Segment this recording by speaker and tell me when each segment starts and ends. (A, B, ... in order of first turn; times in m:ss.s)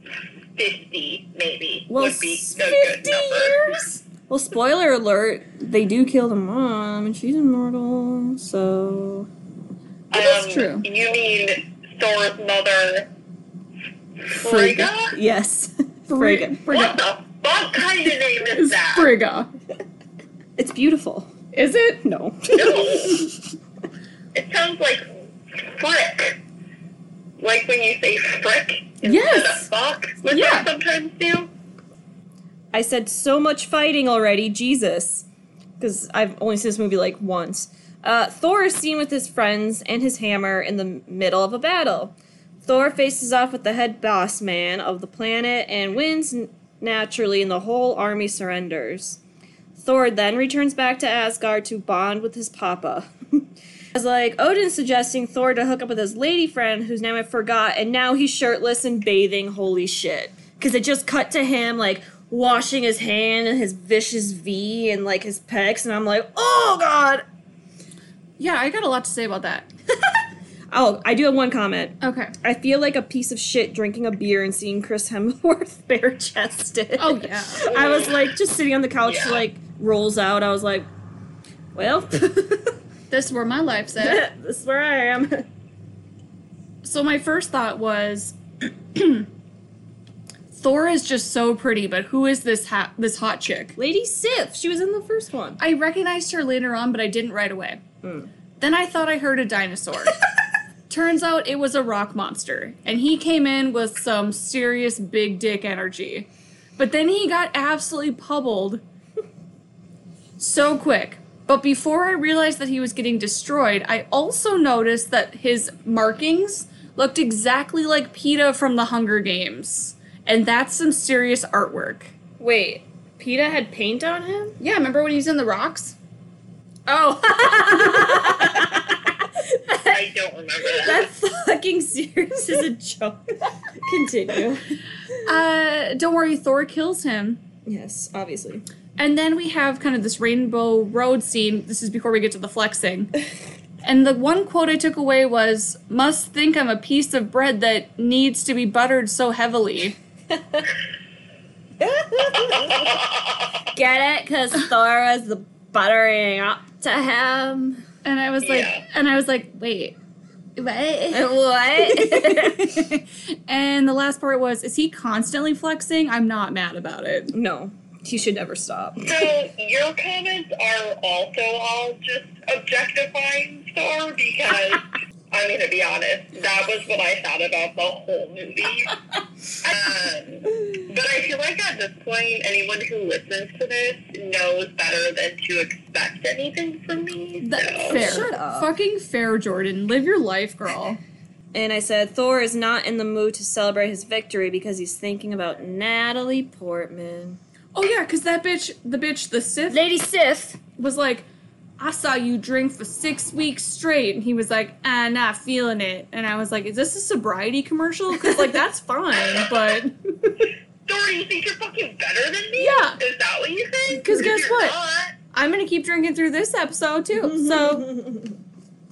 0:00.5-0:03.6 A
0:01.9-0:09.3 B
0:10.1-0:13.1 A
0:10.1-0:10.8 C
0:14.3-0:15.1 A
0:14.4-0:16.6 B
0:16.1-0:17.0 C
0:16.7-0:19.1 A
0:18.5-0:19.5 C
0:20.6-0:21.3 B
0:21.5-0:22.0 C
0:22.0-0:23.2 B
0:22.5-0:23.3 A
0:22.5-0:23.0 C
0:24.3-0:26.4 A
0:27.4-0:31.5 A
0:29.0-0:29.7 C
0:30.3-0:30.7 C
0:32.7-0:35.2 B
0:35.8-0:42.1 B
0:42.6-0:49.2 B
0:49.7-1:07.2 B
1:08.4-1:09.7 C
1:10.7-1:20.9 B
1:12.0-1:12.3 C
1:17.0-1:17.7 C
1:17.7-1:18.2 A
1:19.0-1:19.4 A
1:21.7-1:22.7 B
1:23.1-1:24.2 C
1:24.0-1:25.4 B
1:26.8-1:28.4 C
1:28.9-1:29.3 C
1:30.5-1:33.8 C
1:33.8-1:35.6 B
1:35.6-1:37.8 C
1:38.0-1:38.3 B
1:38.6-1:40.2 C
1:40.9-1:48.8 C
1:50.4-2:02.1 C
2:02.4-2:04.6 B
2:04.6-2:06.0 C
2:06.9-2:10.0 B
2:09.9-2:11.1 A
2:10.6-2:14.6 B
2:15.2-2:17.4 C
2:17.6-2:18.6 B
2:19.0-2:23.1 C
2:23.8-2:30.0 C
2:30.3-2:30.6 B
2:31.8-2:33.0 B
2:32.5-2:33.2 A
2:33.7-2:37.8 B
2:38.0-2:40.0 C
2:38.4-2:38.8 A
2:40.6-2:47.3 C
2:41.1-2:42.8 B
2:47.3-2:49.2 B
2:49.0-2:59.0 A
2:59.6-3:08.3 A
3:07.4-3:11.0 C
3:07.9-3:08.7 B
3:11.5-3:17.4 B
3:17.7-3:19.8 C
3:19.7-3:20.6 B
3:20.8-3:21.3 C
3:21.8-3:30.3 C
3:28.2-3:28.5 B
3:30.8-3:35.1 A
3:32.6-3:33.0 C
3:33.9-3:34.8 C
3:35.3-3:37.9 C
3:37.2-3:38.3 B